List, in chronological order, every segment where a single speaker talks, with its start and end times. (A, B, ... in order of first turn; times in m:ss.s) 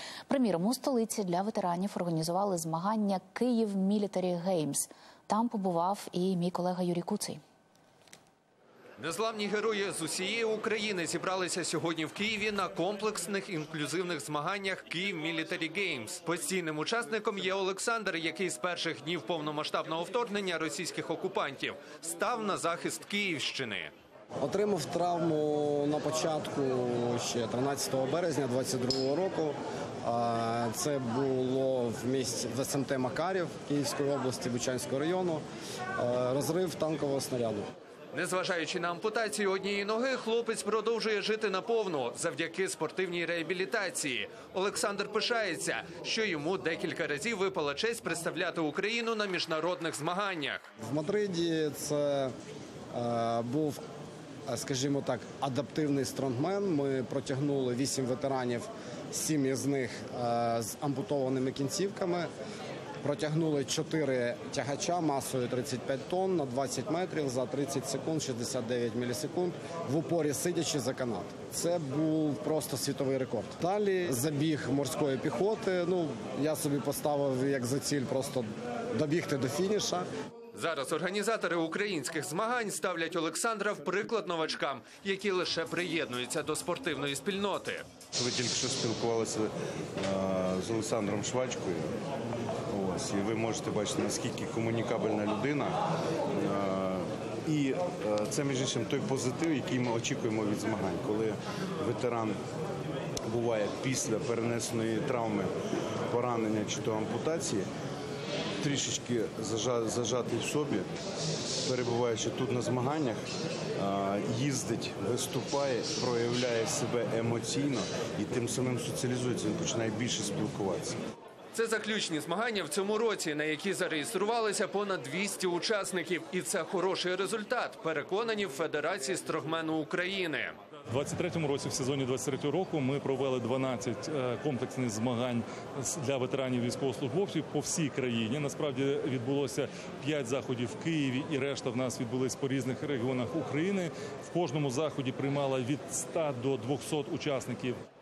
0:00.3-0:07.4 A
0:09.0-0:23.9 B
0:24.4-0:35.4 C
0:36.0-0:37.7 C
0:38.1-0:50.7 B
0:50.8-0:52.3 C
0:52.9-0:53.8 C
0:54.5-1:02.3 C
1:03.0-1:20.1 C
1:20.5-1:27.8 B
1:28.1-1:31.9 D
1:32.7-1:35.8 D
1:36.3-1:42.4 D
1:43.3-1:45.5 D
1:46.1-1:47.7 D
1:48.6-1:50.9 D
1:51.6-1:53.2 D
1:53.8-2:01.0 D
2:01.6-2:10.6 B
2:10.9-2:27.8 E